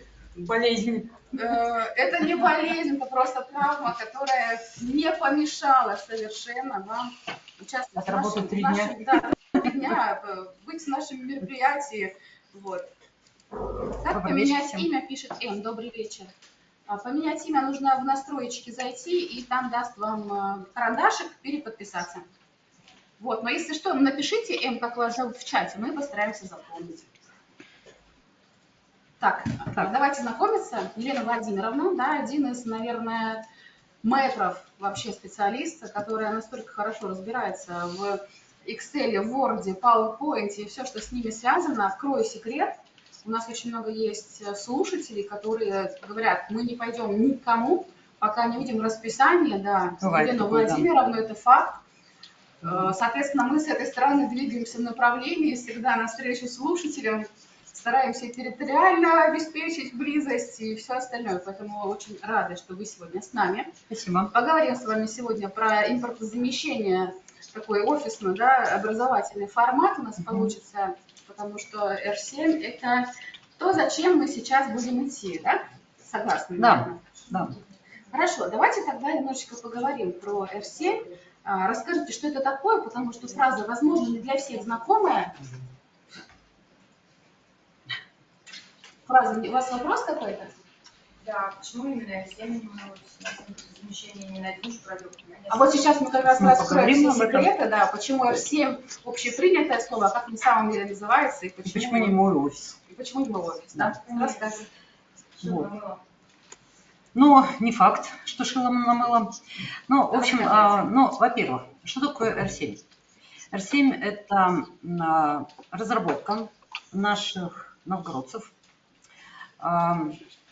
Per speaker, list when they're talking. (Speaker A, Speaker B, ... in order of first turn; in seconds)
Speaker A: 0.4-1.2, 8.0-9.2, 14.1-14.9, 50.0-50.9, 63.9-64.3, 76.6-77.5, 96.3-97.5, 101.7-102.8, 105.4-105.7, 107.1-112.8, 113.5-118.5, 119.6-120.2
Speaker B: 1.3-12.9, 13.9-16.3, 16.9-22.3, 23.2-27.1, 29.2-33.4, 34.0-51.8, 52.6-63.7, 64.3-77.3, 78.1-85.3, 89.1-90.5, 95.5-102.2, 102.9-104.7, 110.1-110.9
Speaker C: 91.2-95.9, 104.0-104.6, 105.4-106.0